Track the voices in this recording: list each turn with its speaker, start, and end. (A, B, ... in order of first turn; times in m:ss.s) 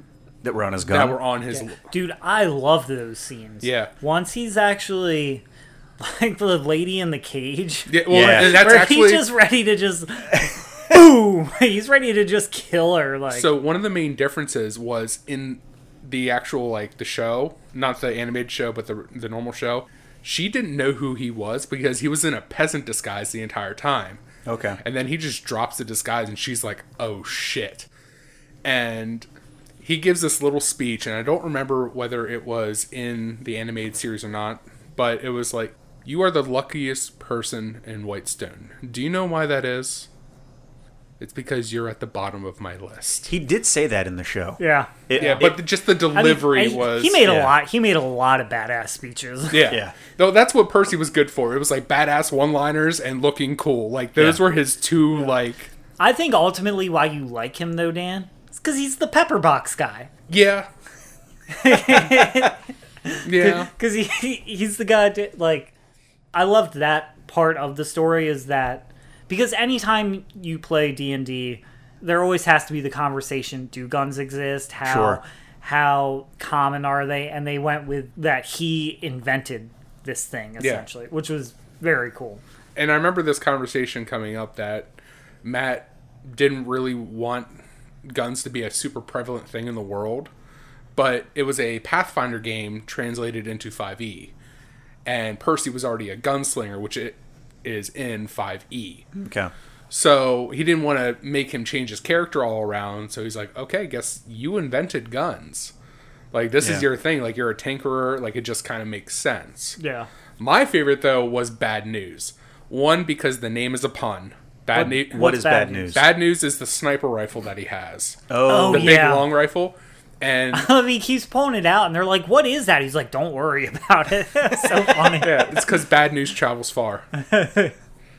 0:00.4-0:01.2 A
0:00.8-0:01.8 B
0:01.5-0:05.4 C
0:03.6-0:03.9 B
0:06.0-0:13.5 C
0:07.9-0:09.3 B
0:08.1-0:08.7 A
0:13.3-0:24.2 B
0:24.4-0:24.8 A
0:24.8-0:27.9 B
0:28.6-0:29.3 B
0:29.8-0:40.1 B
0:41.2-0:43.3 B
0:43.3-0:45.6 A
0:44.6-0:45.5 C
0:45.2-0:47.3 B
0:46.1-0:49.7 C
0:47.2-0:47.6 A
0:49.5-0:55.7 B
0:49.7-0:50.0 A
0:56.0-1:00.1 C
1:00.3-1:00.7 B
1:01.5-1:05.7 C
1:03.2-1:03.7 B
1:06.3-1:22.4 C
1:14.8-1:15.2 A
1:20.6-1:20.9 B
1:22.8-1:27.5 B
1:28.1-1:30.3 B
1:31.0-1:34.3 B
1:35.0-1:39.1 B
1:39.1-1:39.5 A
1:39.9-1:45.7 B
1:46.3-1:49.8 B
1:46.6-1:46.9 A
1:49.8-1:50.1 C
1:50.4-1:55.4 B
1:54.7-1:56.0 C
1:54.8-1:56.1 A
1:55.9-2:00.7 B
1:58.3-1:59.0 A
1:58.4-1:59.3 C
2:00.5-2:05.6 C
2:05.2-2:07.1 B
2:07.1-2:07.7 C